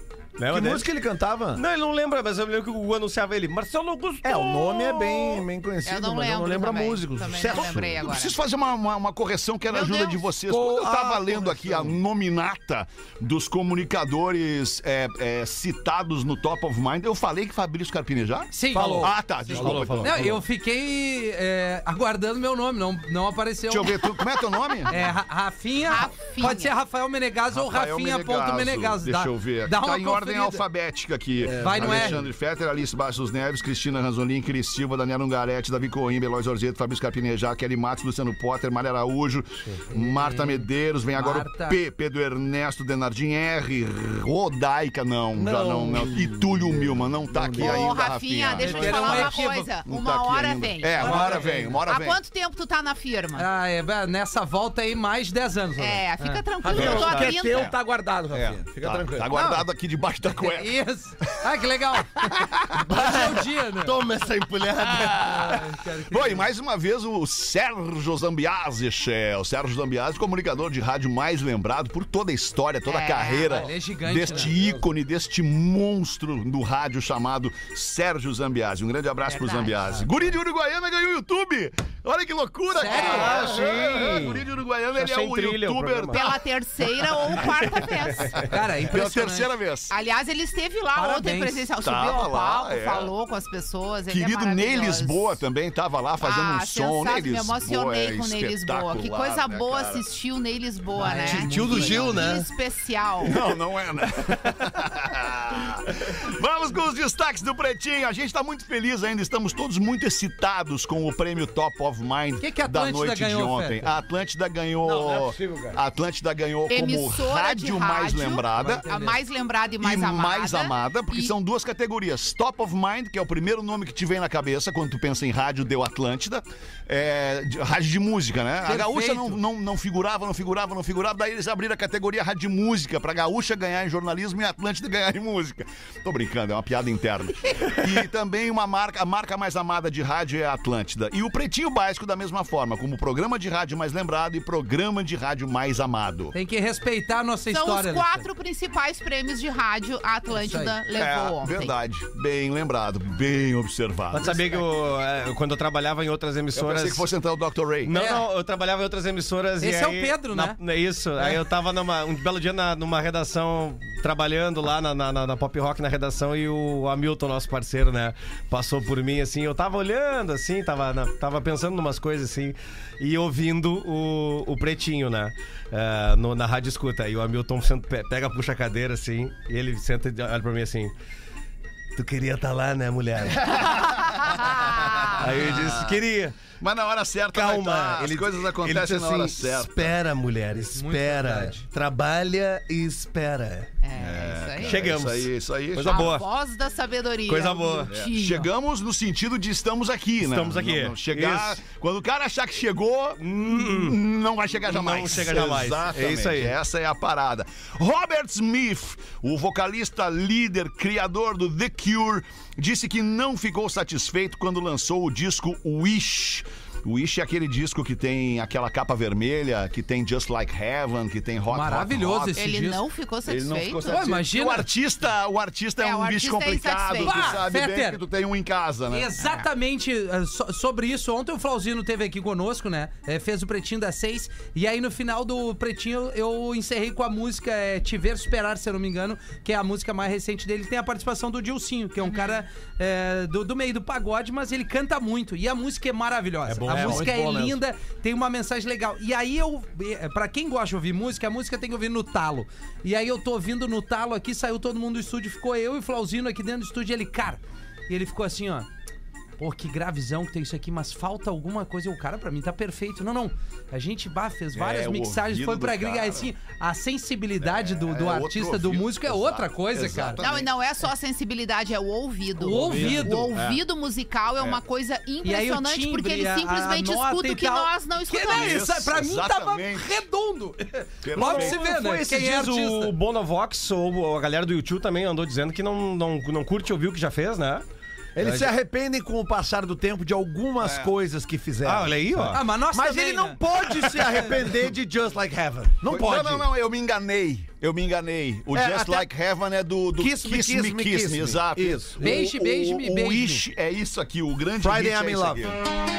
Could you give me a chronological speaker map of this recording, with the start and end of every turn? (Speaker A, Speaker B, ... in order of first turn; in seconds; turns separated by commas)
Speaker A: 0.4-0.8, Speaker B: 0.5-1.6, Speaker A: 1.5-4.6, Speaker B: 4.2-8.0, Speaker C: 5.8-8.3, Speaker D: 7.5-20.4, Speaker C: 9.7-10.3, Speaker B: 10.5-12.0, Speaker E: 18.5-30.6, Speaker B: 18.7-20.3, Speaker A: 18.7-20.4, Speaker D: 23.7-25.0, Speaker C: 25.9-26.7, Speaker D: 27.5-52.2, Speaker B: 31.4-32.3, Speaker E: 31.6-32.2, Speaker E: 39.9-41.8, Speaker B: 45.3-48.0, Speaker C: 47.6-53.5, Speaker E: 48.6-49.7, Speaker E: 51.0-51.8, Speaker E: 53.4-56.4, Speaker C: 55.8-57.7, Speaker B: 56.6-59.6, Speaker A: 56.7-57.6, Speaker D: 56.7-57.7, Speaker D: 58.3-60.7, Speaker E: 60.4-62.2, Speaker D: 62.2-63.2, Speaker E: 62.8-64.0, Speaker A: 63.8-65.3, Speaker D: 64.9-86.4, Speaker E: 65.1-66.5, Speaker C: 72.8-73.6, Speaker E: 73.5-74.5, Speaker C: 79.2-80.0, Speaker E: 82.7-83.5, Speaker A: 82.9-86.2, Speaker C: 82.9-83.2, Speaker C: 86.1-88.5, Speaker D: 87.3-87.8, Speaker E: 88.4-89.5, Speaker D: 88.8-89.9, Speaker C: 89.9-95.4, Speaker E: 91.0-91.6, Speaker D: 91.8-93.1, Speaker D: 94.1-100.0, Speaker C: 96.2-103.4, Speaker E: 101.0-102.3, Speaker B: 101.3-102.4, Speaker A: 101.3-102.4, Speaker D: 103.2-118.8, Speaker E: 112.4-113.9, Speaker B: 114.8-115.8, Speaker C: 116.7-121.3, Speaker E: 118.9-119.2, Speaker D: 119.8-146.3, Speaker E: 128.6-129.4, Speaker E: 146.3-148.2, Speaker C: 147.5-151.7, Speaker E: 150.3-150.8, Speaker D: 150.9-154.6, Speaker A: 154.1-157.1, Speaker D: 156.5-157.9, Speaker A: 157.8-180.9, Speaker E: 157.9-158.2, Speaker E: 159.6-160.6, Speaker A: 181.9-184.1, Speaker C: 184.8-185.1, Speaker A: 185.0-186.4, Speaker D: 185.0-186.0, Speaker D: 186.6-190.0, Speaker A: 187.3-193.7, Speaker E: 190.7-191.6, Speaker C: 193.8-194.8, Speaker D: 193.9-196.1, Speaker A: 194.6-196.2, Speaker C: 195.8-198.5, Speaker A: 197.3-197.9, Speaker D: 197.9-222.4, Speaker A: 200.2-201.6, Speaker A: 203.2-204.0, Speaker A: 204.6-206.6, Speaker E: 221.5-222.8, Speaker C: 222.3-223.9, Speaker D: 223.2-229.1, Speaker E: 223.8-224.7, Speaker C: 225.8-227.3, Speaker E: 227.0-228.0, Speaker E: 228.9-258.7, Speaker C: 229.2-229.4, Speaker C: 242.0-242.4, Speaker A: 246.5-247.1, Speaker B: 246.6-247.6, Speaker E: 259.4-270.2, Speaker D: 264.5-266.3, Speaker D: 267.4-270.5, Speaker C: 270.2-278.6, Speaker E: 272.4-273.3, Speaker A: 272.8-273.3, Speaker E: 275.2-282.9, Speaker D: 278.3-280.0, Speaker D: 281.0-281.7, Speaker B: 281.3-281.9, Speaker A: 281.4-287.6, Speaker B: 288.1-296.5, Speaker A: 288.2-288.5, Speaker D: 290.6-290.9, Speaker A: 291.6-292.4, Speaker E: 292.3-293.4, Speaker D: 295.8-305.6, Speaker B: 298.5-299.1, Speaker B: 300.0-302.1, Speaker E: 302.0-303.4, Speaker B: 304.6-305.6